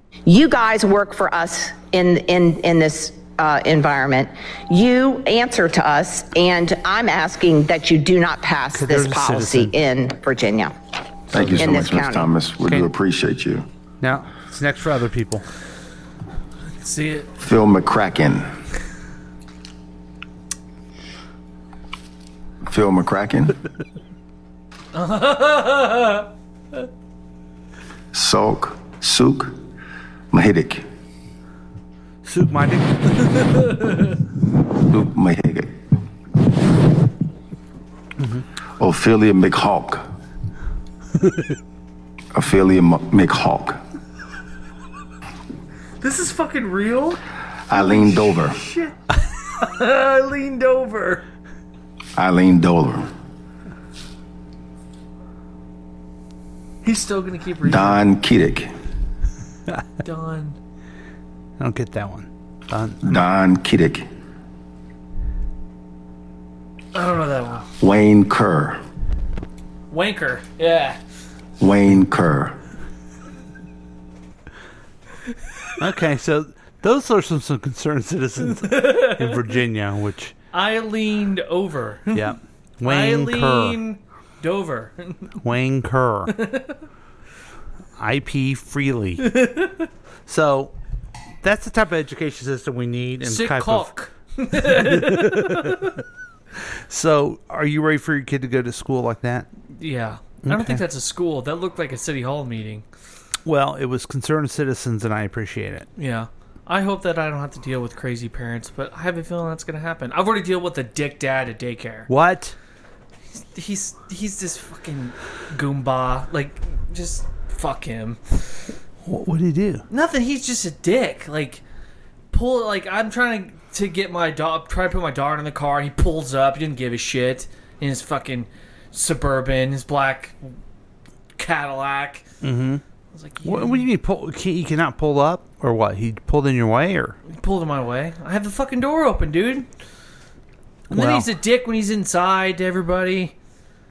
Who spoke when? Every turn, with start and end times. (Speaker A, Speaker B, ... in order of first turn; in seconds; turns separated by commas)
Speaker A: 0.3-10.7, Speaker B: 8.7-9.8, Speaker C: 11.3-13.7, Speaker B: 11.3-11.8, Speaker A: 11.5-12.3, Speaker B: 12.6-12.9, Speaker B: 14.0-15.5, Speaker D: 16.8-17.3, Speaker C: 17.4-18.5, Speaker C: 22.6-23.5, Speaker D: 24.9-26.3, Speaker C: 28.1-29.6, Speaker C: 30.3-30.9, Speaker B: 32.2-33.1, Speaker D: 33.2-34.2, Speaker C: 34.9-35.7, Speaker C: 38.8-40.1, Speaker C: 42.3-43.8, Speaker D: 46.0-47.2, Speaker C: 47.7-48.6, Speaker D: 47.7-49.0, Speaker D: 49.5-51.2, Speaker C: 52.2-53.1, Speaker D: 56.8-58.0, Speaker C: 57.6-58.7, Speaker D: 60.0-60.6, Speaker B: 61.6-63.2, Speaker C: 63.0-64.1, Speaker D: 67.0-67.7, Speaker C: 67.8-68.8, Speaker D: 69.9-71.0, Speaker C: 71.6-72.5, Speaker B: 75.8-80.3, Speaker D: 78.6-79.4, Speaker D: 80.5-85.3, Speaker B: 82.1-83.8, Speaker B: 85.4-86.3, Speaker D: 86.4-86.8, Speaker B: 88.0-89.3, Speaker D: 89.2-89.9, Speaker B: 90.3-90.7, Speaker B: 91.4-93.9, Speaker D: 93.2-96.0, Speaker B: 94.6-95.9, Speaker B: 96.9-99.5, Speaker D: 99.7-102.8, Speaker B: 100.4-100.8, Speaker B: 103.5-105.9, Speaker D: 106.0-112.1, Speaker B: 112.1-112.6, Speaker D: 113.4-118.6, Speaker B: 119.0-119.8, Speaker D: 119.9-121.6, Speaker D: 122.3-130.5, Speaker D: 131.4-132.2, Speaker B: 132.4-132.8, Speaker D: 133.1-133.9, Speaker B: 133.4-137.2, Speaker D: 137.3-139.7, Speaker B: 140.9-141.3, Speaker D: 140.9-143.3